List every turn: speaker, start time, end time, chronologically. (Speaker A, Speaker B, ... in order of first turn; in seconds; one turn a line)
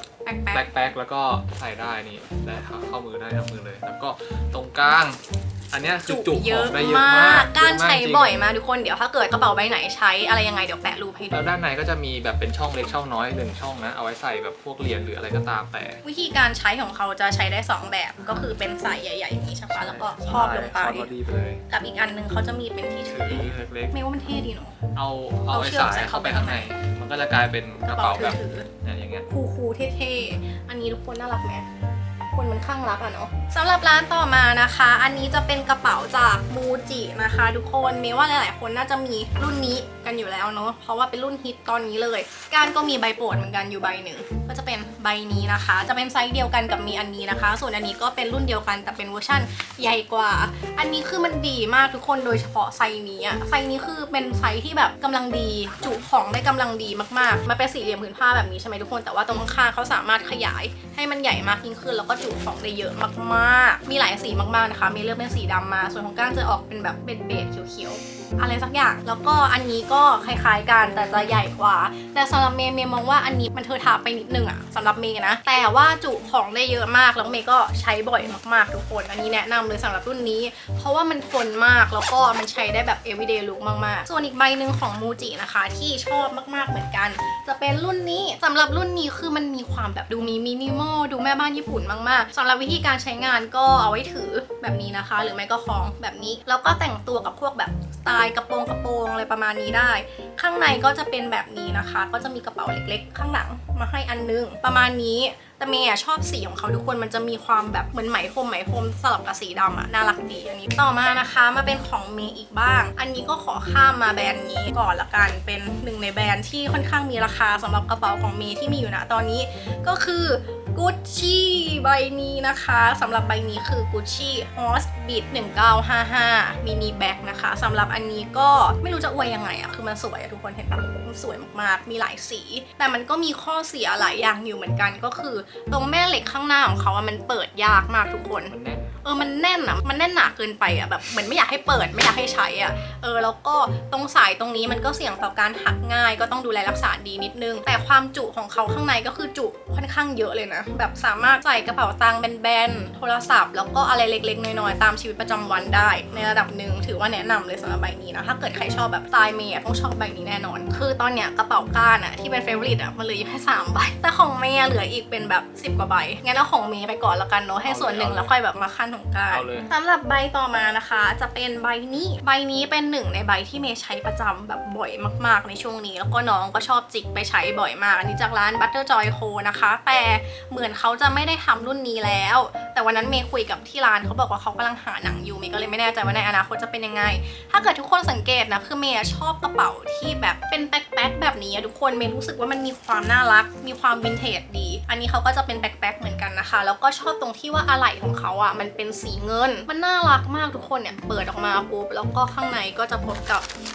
Speaker A: 0.2-0.7
Speaker B: 0.5-5.2
Speaker B: 5.7-8.4
Speaker A: 6.1-11.5
Speaker B: 11.3-16.0
Speaker A: 16.0-21.1
Speaker B: 19.7-21.6
Speaker A: 21.7-24.8
Speaker B: 23.1-23.9
Speaker B: 25.0-29.3
Speaker A: 25.5-26.7
Speaker A: 27.9-28.7
Speaker A: 29.3-31.7
Speaker A: 32.3-203.5
Speaker B: 138.5-138.9
Speaker B: 167.6-168.3
Speaker B: 169.3-169.7